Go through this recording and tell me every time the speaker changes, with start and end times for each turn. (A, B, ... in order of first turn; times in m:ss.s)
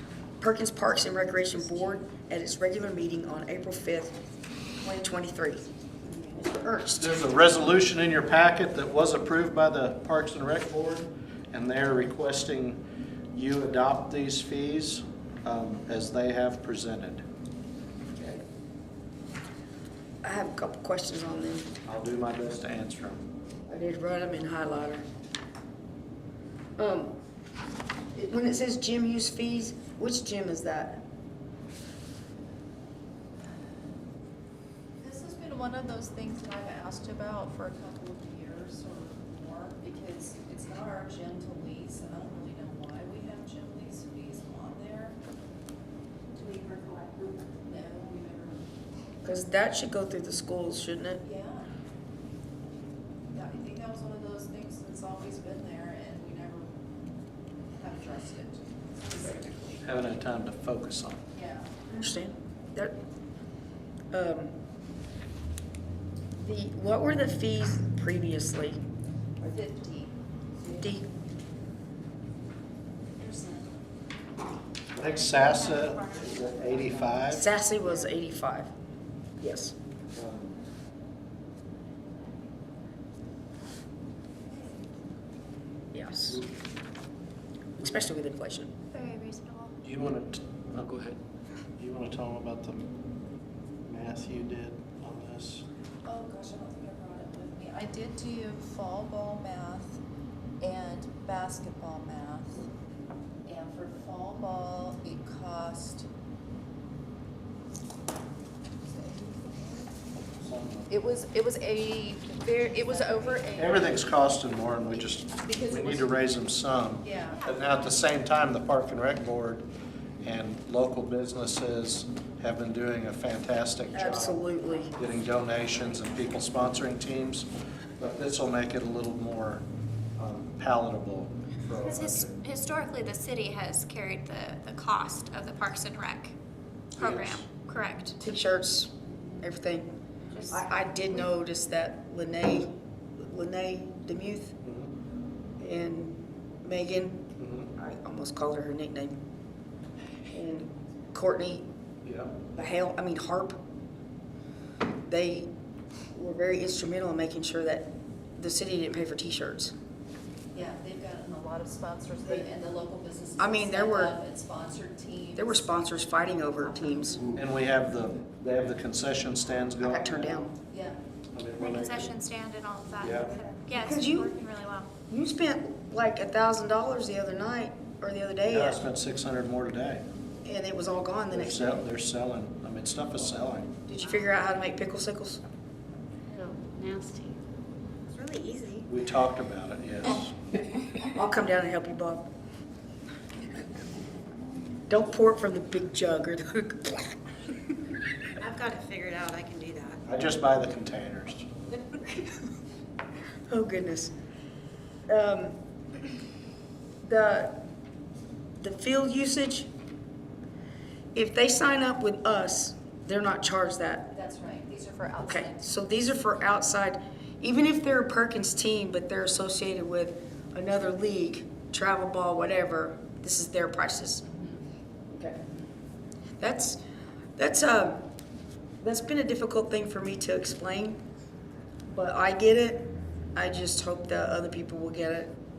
0:00.4-0:04.2 A
0:04.8-0:07.2 A
0:07.0-0:12.8 B
0:13.3-0:17.2 B
0:18.2-0:18.4 A
0:20.2-0:21.7 A
0:21.8-0:23.3 B
0:23.7-0:25.0 A
0:26.8-0:27.2 A
0:28.1-0:31.0 A
0:35.0-0:45.2 C
0:46.4-0:46.8 C
0:47.6-0:48.6 C
0:49.2-0:51.2 A
0:51.2-0:51.7 C
0:53.3-0:56.7 C
0:57.7-1:00.0 C
0:59.8-1:01.2 B
1:01.3-1:01.7 C
1:01.9-1:02.9 A
1:04.1-1:04.6 A
1:06.4-1:08.8 A
1:09.4-1:10.8 C
1:10.7-1:11.0 A
1:13.2-1:13.7 C
1:14.9-1:17.5 B
1:15.0-1:17.1 D
1:17.3-1:18.7 A
1:19.4-1:19.7 A
1:20.1-1:20.5 B
1:25.9-1:26.4 A
1:27.8-1:28.7 A
1:28.9-1:29.7 D
1:29.8-1:31.2 B
1:31.8-1:32.9 B
1:33.8-1:35.6 B
1:36.0-1:40.0 C
1:40.6-1:42.7 C
1:43.4-1:46.1 C
1:48.9-1:49.8 C
1:50.4-1:50.9 B
1:50.9-1:54.0 C
1:53.6-1:59.7 B
1:55.3-1:56.0 C
1:57.0-1:57.5 C
2:00.2-2:04.4 B
2:03.9-2:04.9 A
2:04.9-2:07.5 B
2:08.0-2:09.6 B
2:10.2-2:12.3 B
2:11.9-2:16.3 D
2:17.0-2:17.5 B
2:17.0-2:18.2 D
2:18.2-2:24.6 A
2:24.6-2:24.9 B
2:25.6-2:29.2 A
2:27.4-2:27.7 B
2:30.3-2:31.7 A
2:32.0-2:32.3 B
2:32.5-2:33.6 A
2:35.0-2:35.5 A
2:36.1-2:39.7 A
2:40.5-2:45.6 C
2:43.4-2:44.2 A
2:45.4-2:47.3 A
2:47.3-2:50.5 B
2:49.8-2:50.5 A
2:50.7-2:51.0 C
2:51.3-2:52.1 B
2:51.6-2:54.9 D
2:53.0-2:53.3 B
2:53.7-2:54.4 A
2:55.1-2:58.8 A
2:58.5-3:00.0 B
3:00.4-3:01.8 A
3:01.3-3:03.7 B
3:03.8-3:05.4 A
3:06.3-3:07.3 E
3:08.1-3:08.8 E
3:08.9-3:10.3 B
3:11.0-3:12.3 A
3:14.9-3:17.2 A
3:18.4-3:20.0 E
3:20.0-3:21.5 B
3:23.5-3:24.1 A
3:25.1-3:25.6 A
3:27.0-3:27.6 A
3:28.6-3:29.7 A
3:31.1-3:34.1 A
3:34.1-3:35.6 C
3:35.2-3:44.2 A
3:45.1-3:45.4 A
3:46.4-3:46.8 A
3:47.4-3:48.0 A
3:48.8-3:51.0 A
3:51.9-3:55.4 A